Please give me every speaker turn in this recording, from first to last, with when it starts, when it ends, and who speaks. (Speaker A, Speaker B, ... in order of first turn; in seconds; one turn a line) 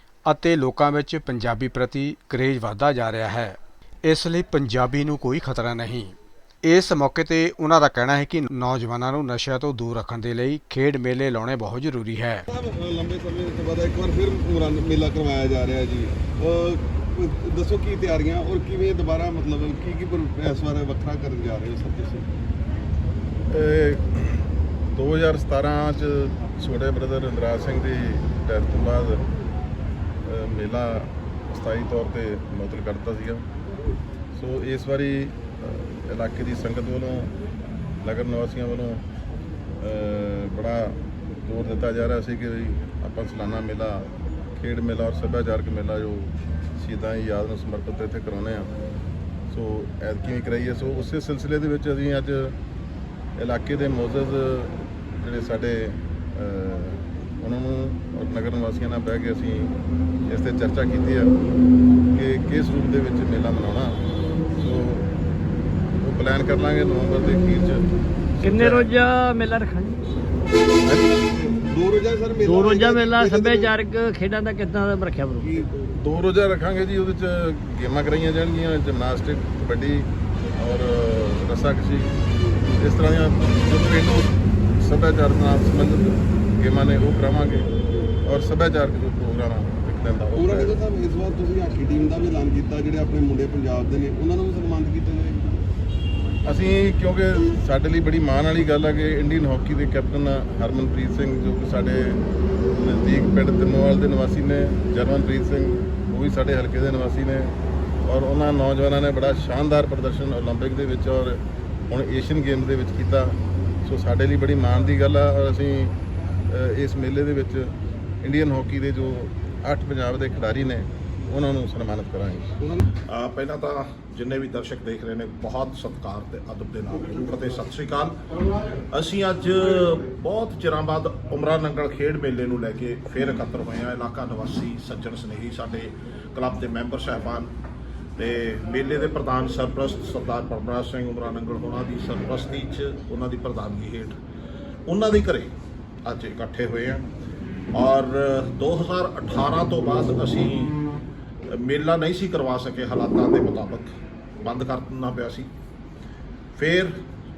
Speaker A: 0.3-12.5
Speaker B: 12.5-22.3
Speaker C: 23.5-29.3
Speaker C: 30.2-33.5
Speaker C: 34.3-37.3
Speaker C: 38.0-39.0
Speaker C: 39.8-48.7
Speaker C: 49.5-52.6
Speaker C: 53.4-59.7
Speaker C: 60.3-61.3
Speaker C: 62.1-64.0
Speaker C: 64.6-65.1
Speaker C: 66.0-67.9
Speaker D: 68.4-70.0
Speaker C: 68.4-68.9
Speaker B: 71.1-73.7
Speaker D: 72.5-75.6
Speaker B: 75.4-76.0
Speaker C: 75.9-82.2
Speaker C: 82.8-87.7
Speaker C: 88.2-90.7
Speaker B: 90.4-95.7
Speaker C: 96.5-102.2
Speaker C: 102.8-116.0
Speaker C: 116.5-122.5
Speaker E: 123.1-137.5
Speaker E: 138.2-144.2
Speaker E: 144.9-145.5
Speaker E: 146.1-147.1
Speaker E: 147.7-150.8
Speaker E: 151.5-155.5
Speaker E: 156.6-156.9